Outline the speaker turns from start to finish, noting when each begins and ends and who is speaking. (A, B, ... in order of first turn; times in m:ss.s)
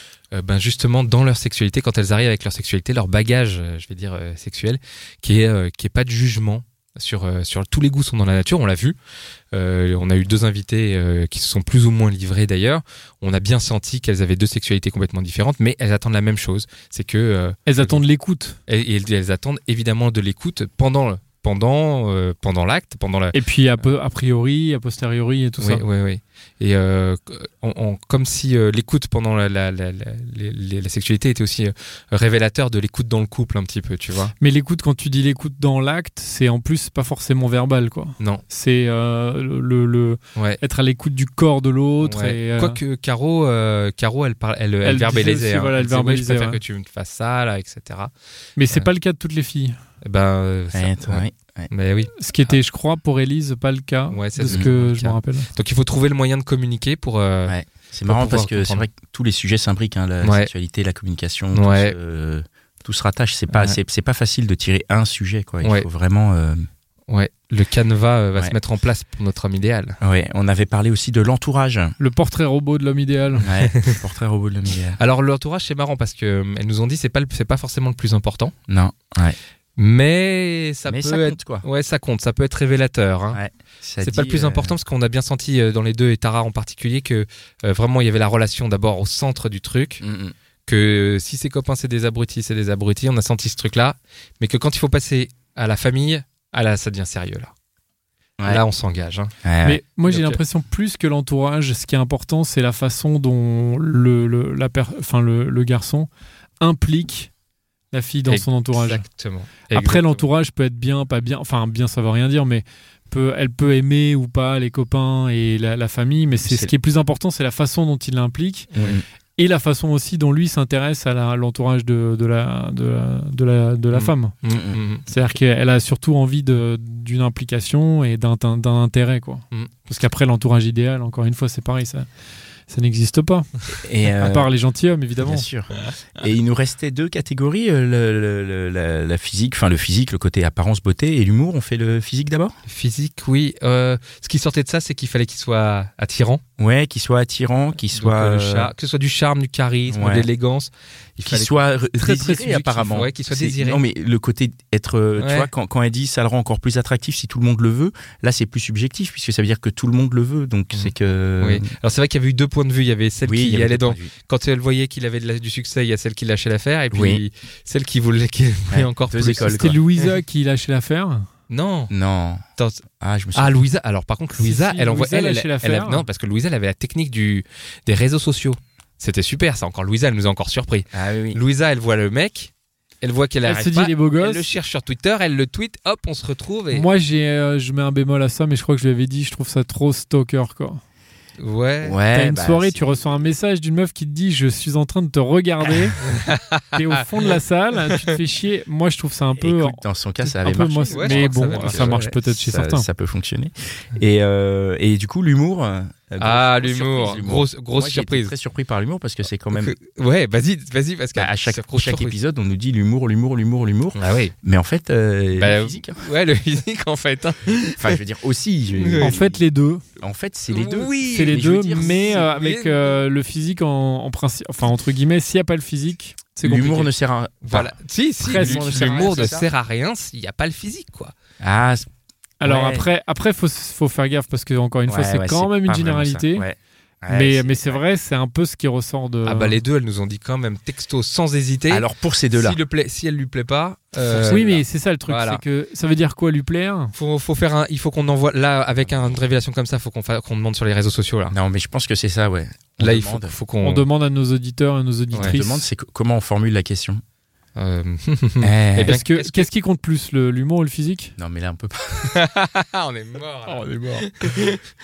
0:00.3-0:09.0 A
0:09.5-0:18.0 A
0:17.7-0:18.6 B
0:18.7-0:23.4 A
0:23.3-0:25.8 B
0:25.6-0:34.3 A
0:34.4-0:42.8 B
0:42.0-0:48.1 A
0:44.8-0:46.6 B
0:48.6-0:49.8 B
0:50.0-0:52.6 A
0:50.7-0:51.7 C
0:52.2-0:55.5 B
0:54.1-0:57.6 A
0:57.5-1:06.7 C
0:58.1-0:58.9 A
1:00.2-1:00.5 A
1:01.5-1:02.0 A
1:03.5-1:03.8 A
1:07.1-1:10.0 A
1:10.0-1:12.0 C
1:12.0-1:13.4 B
1:13.4-1:14.0 A
1:13.4-1:15.0 C
1:15.0-1:18.5 A
1:18.7-1:19.4 C
1:19.8-1:23.4 A
1:20.9-1:21.7 C
1:23.3-1:24.8 C
1:24.0-1:30.0 A
1:30.0-1:30.3 C
1:30.7-1:37.5 A
1:38.5-1:39.3 A
1:39.4-1:39.8 C
1:39.6-1:46.1 B
1:40.1-1:40.4 A
1:46.6-1:47.3 B
1:47.9-1:49.0 B
1:48.3-1:50.3 A
1:49.7-1:58.7 B
1:56.4-1:56.7 C
1:58.7-1:59.0 A
1:58.8-1:59.0 C
1:59.4-2:04.3 B
2:03.9-2:05.1 A
2:04.5-2:04.8 C
2:05.1-2:12.1 B
2:12.7-2:13.5 B
2:13.7-2:14.5 C
2:14.2-2:15.4 B
2:15.2-2:22.5 C
2:22.7-2:26.4 A
2:26.6-2:28.7 C
2:27.9-2:31.6 A
2:29.9-2:30.3 C
2:31.2-2:41.7 C
2:32.0-2:33.0 B
2:32.9-2:33.8 A
2:35.2-2:35.5 A
2:40.8-2:50.1 A
2:43.2-2:44.1 C
2:46.9-2:47.2 C
2:48.7-2:49.8 C
2:49.4-2:51.3 B
2:51.5-2:51.9 A
2:51.9-2:52.4 C
2:52.6-2:52.8 A
2:53.0-2:53.6 C
2:53.4-3:02.5 A
2:54.4-2:56.0 B
3:00.9-3:01.4 C
3:03.0-3:06.8 A
3:03.4-3:04.5 B
3:06.7-3:10.8 B
3:11.4-3:12.0 A
3:11.8-3:12.8 C
3:12.1-3:16.0 B
3:16.0-3:17.4 A
3:16.7-3:22.9 B
3:19.4-3:29.8 C
3:20.9-3:22.1 A
3:26.2-3:28.3 A
3:29.5-3:32.2 A
3:31.2-3:36.0 C
3:34.0-3:34.3 A
3:35.4-3:38.0 A
3:37.8-3:39.4 C
3:38.8-3:39.1 A
3:39.0-3:39.8 B
3:40.0-3:42.2 C
3:40.5-3:43.0 A
3:41.1-3:46.9 B
3:46.4-3:49.5 C
3:47.4-3:51.1 A
3:48.2-3:49.1 B
3:51.4-3:51.9 C
3:52.4-3:56.4 B
3:52.4-3:52.9 C
3:54.9-3:57.8 C
3:57.1-3:59.6 B
3:59.2-4:04.6 A
4:01.7-4:02.6 C
4:04.1-4:04.6 C
4:04.2-4:06.9 B
4:05.1-4:05.4 A
4:07.0-4:11.4 A
4:11.3-4:13.4 C
4:12.8-4:13.9 A
4:13.6-4:15.6 B
4:15.1-4:15.4 A
4:15.2-4:17.0 C
4:17.6-4:19.5 A
4:18.4-4:19.0 C
4:18.9-4:21.2 B
4:21.2-4:22.2 C
4:22.0-4:24.6 A
4:23.5-4:24.1 C